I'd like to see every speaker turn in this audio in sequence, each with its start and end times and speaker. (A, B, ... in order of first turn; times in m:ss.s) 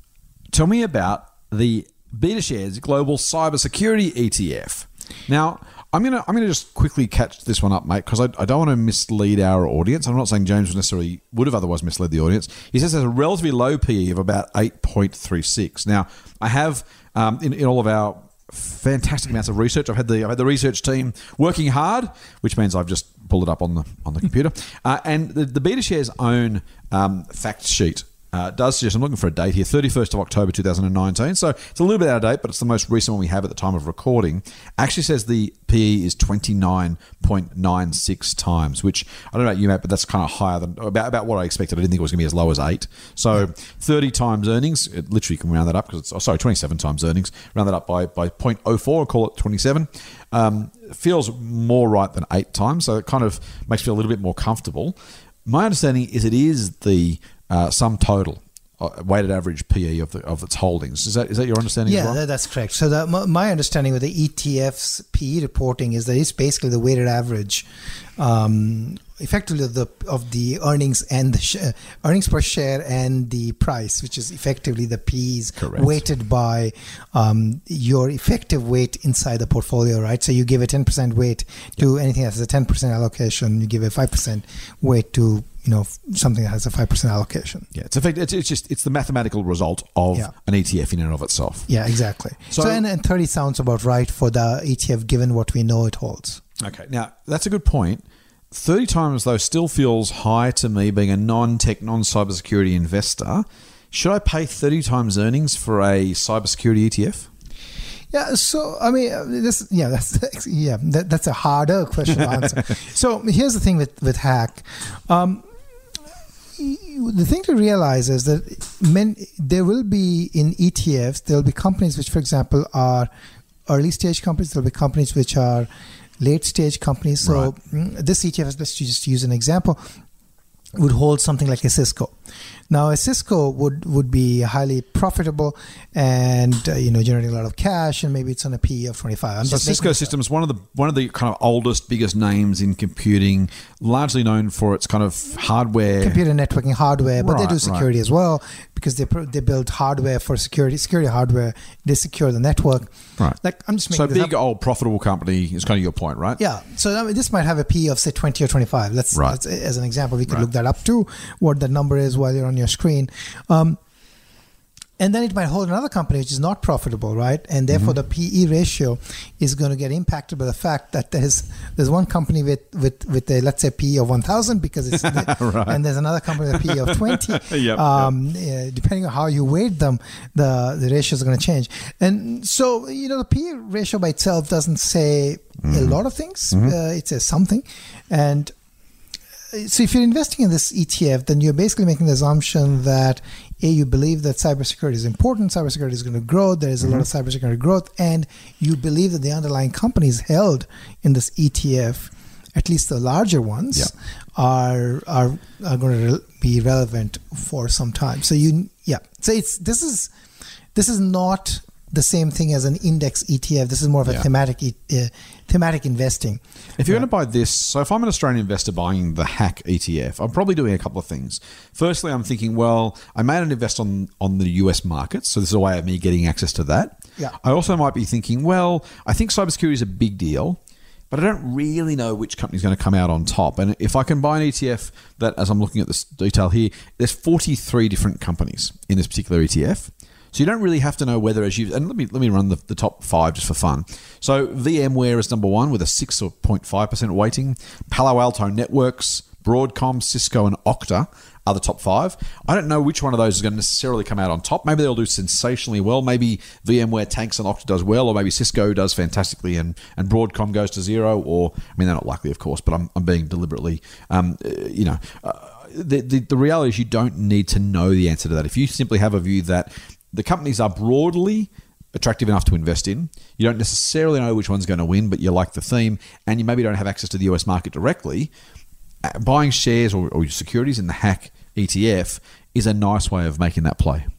0:00.5-1:02.2 A
1:01.8-1:07.7 B
1:08.2-1:27.7 B
1:15.6-1:15.9 A
1:27.7-1:31.7 A
1:31.7-1:36.4 B
1:32.5-1:32.8 A
1:36.6-1:47.3 A
1:48.1-1:55.4 B
1:56.6-2:03.1 B
2:03.7-2:05.7 B
2:06.2-2:09.8 B
2:07.2-2:07.5 A
2:10.8-2:12.1 B
2:12.7-2:20.1 B
2:19.4-2:26.2 A
2:26.0-2:34.3 B
2:27.2-2:27.9 A
2:33.9-2:36.4 A
2:36.4-2:43.8 B
2:45.0-3:08.5 B
2:55.0-2:55.8 A
2:56.5-2:58.1 A
3:05.6-3:06.0 A
3:09.5-3:30.1 B
3:30.8-3:37.0 B
3:36.8-4:38.3 A
4:39.0-4:44.1 A